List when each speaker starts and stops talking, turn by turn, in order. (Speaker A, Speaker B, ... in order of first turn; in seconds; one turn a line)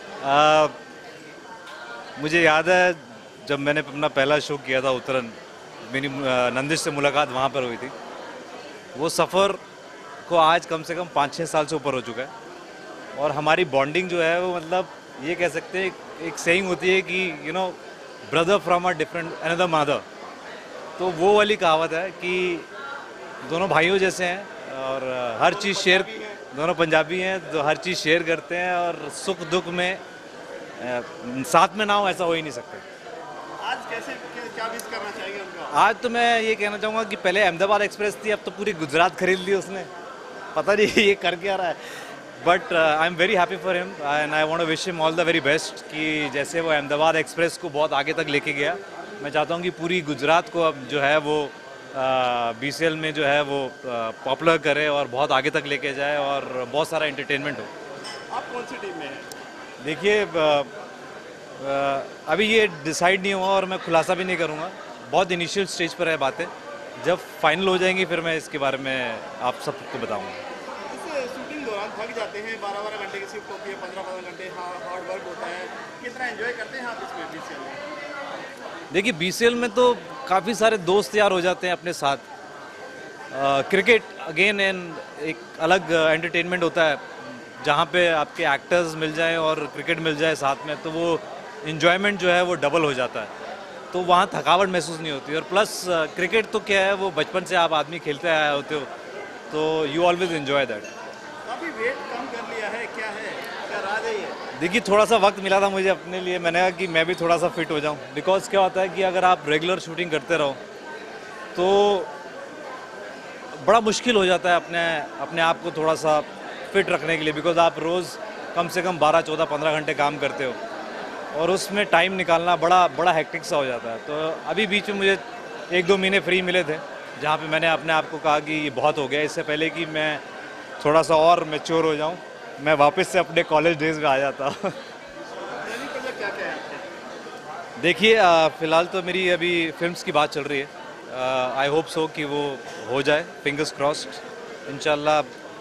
Speaker A: 0.2-0.8
Speaker A: 2.2-7.9
Speaker A: 8.9-9.6
Speaker A: 10.2-12.3
Speaker A: 13.2-20.1
Speaker A: 21.0-22.7
Speaker A: 23.4-30.0
Speaker B: 25.4-26.4
Speaker A: 30.8-32.8
Speaker B: 33.6-35.8
Speaker A: 35.7-39.9
Speaker A: 40.5-41.8
Speaker A: 42.4-57.7
Speaker B: 58.3-59.3
Speaker A: 59.8-60.7
Speaker A: 61.6-70.4
Speaker B: 70.9-77.8
Speaker A: 78.9-82.2
Speaker A: 83.3-93.3
Speaker A: 93.9-98.9
Speaker A: 99.5-100.9
Speaker B: 101.5-104.4
Speaker A: 104.5-110.6
Speaker A: 111.5-112.1
Speaker A: 113.5-120.6
Speaker A: 121.3-130.2
Speaker A: 130.8-134.7
Speaker B: 135.6-136.9
Speaker A: 137.8-145.3